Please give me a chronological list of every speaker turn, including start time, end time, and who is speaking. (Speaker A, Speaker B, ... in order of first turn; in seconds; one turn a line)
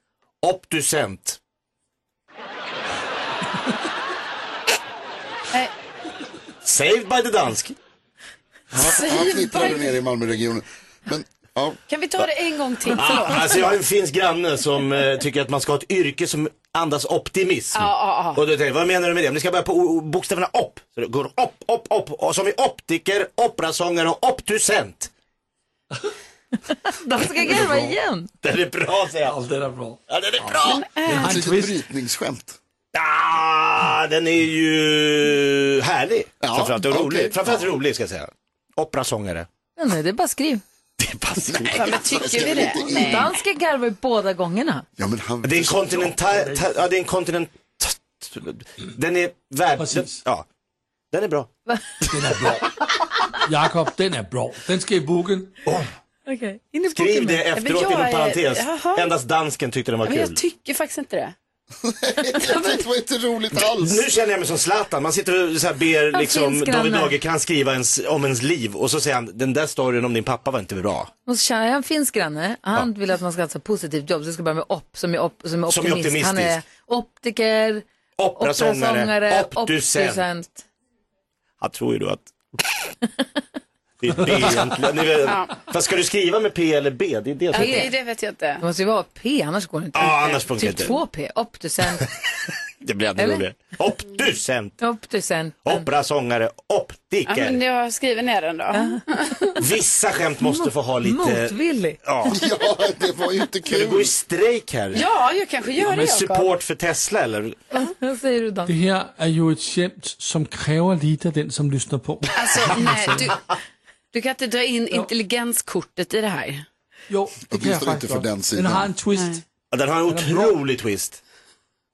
Speaker A: 0.4-1.4
Speaker A: 6.6-7.8
Speaker B: 8.7-11.8
Speaker C: 8.8-9.9
Speaker C: 11.9-13.6
Speaker A: 12.9-25.1
Speaker C: 17.7-18.4
Speaker D: 26.9-28.3
Speaker A: 28.4-29.4
Speaker E: 29.2-30.0
Speaker A: 30.1-30.9
Speaker B: 30.5-32.6
Speaker C: 30.7-31.2
Speaker E: 31.0-31.8
Speaker A: 32.9-39.5
Speaker B: 36.4-37.7
Speaker D: 39.8-40.6
Speaker A: 41.0-41.9
Speaker B: 41.5-43.3
Speaker C: 41.7-43.3
Speaker D: 42.8-44.9
Speaker B: 45.0-46.2
Speaker A: 45.4-50.4
Speaker E: 49.8-50.2
Speaker A: 51.1-51.5
Speaker E: 52.0-52.7
Speaker E: 53.3-55.8
Speaker D: 56.3-57.4
Speaker A: 56.9-60.4
Speaker C: 57.5-59.1
Speaker C: 60.0-61.3
Speaker B: 61.8-64.1
Speaker A: 63.5-71.1
Speaker D: 66.1-67.1
Speaker D: 71.2-77.8
Speaker A: 75.7-76.6
Speaker A: 78.2-80.2
Speaker D: 78.4-80.7
Speaker A: 81.6-82.8
Speaker A: 84.0-87.9
Speaker C: 85.2-85.5
Speaker D: 87.5-87.9
Speaker C: 87.5-88.6
Speaker D: 88.6-92.1
Speaker A: 89.9-91.0
Speaker A: 92.8-94.8
Speaker D: 93.2-93.4
Speaker D: 94.8-95.9
Speaker A: 95.6-97.6
Speaker C: 97.3-99.5
Speaker D: 98.7-99.5
Speaker A: 99.6-102.4
Speaker D: 100.4-102.0
Speaker B: 102.3-104.1
Speaker A: 103.7-105.1
Speaker C: 104.9-106.5
Speaker A: 105.7-107.6
Speaker D: 107.7-108.7
Speaker E: 108.7-113.3
Speaker C: 112.3-113.4
Speaker C: 114.1-116.6
Speaker E: 117.1-119.4
Speaker B: 117.5-118.9
Speaker C: 119.1-119.4
Speaker A: 119.7-121.2
Speaker E: 120.1-120.5